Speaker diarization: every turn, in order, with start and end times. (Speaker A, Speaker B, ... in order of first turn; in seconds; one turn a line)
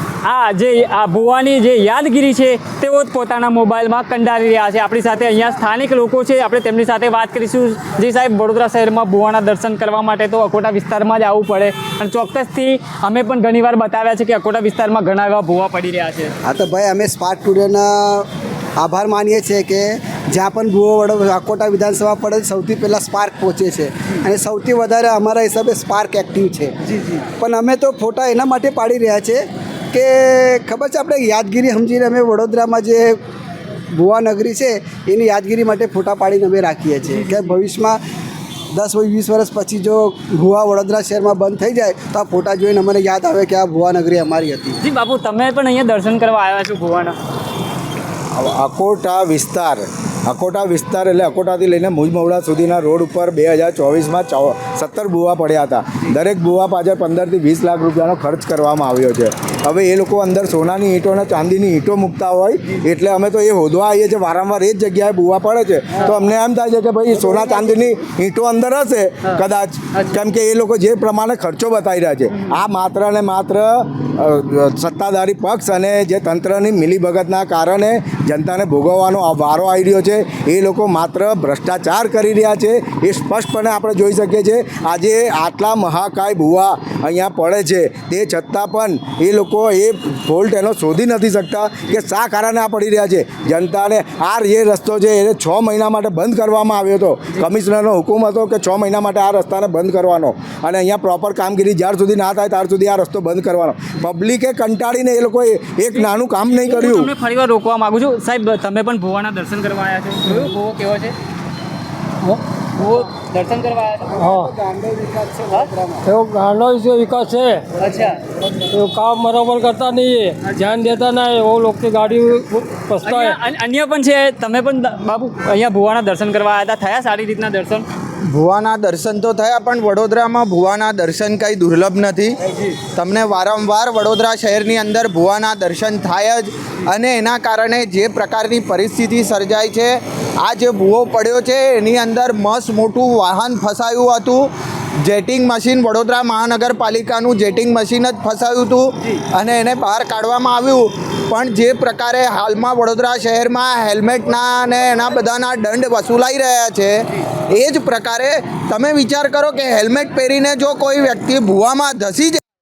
Speaker A: 0.2-16.3
Speaker B: 16.4-18.2
Speaker B: 18.8-26.7
Speaker B: 27.4-33.1
Speaker B: 33.9-38.0
Speaker B: 38.7-44.8
Speaker A: 44.8-47.2
Speaker C: 48.3-107.1
Speaker B: 67.2-67.7
Speaker A: 106.5-111.1
Speaker A: 112.2-114.2
Speaker B: 114.1-116.0
Speaker D: 114.1-114.5
Speaker D: 116.0-117.7
Speaker A: 117.8-118.2
Speaker D: 118.7-123.4
Speaker A: 123.0-127.9
Speaker E: 128.2-144.5
Speaker E: 145.0-162.4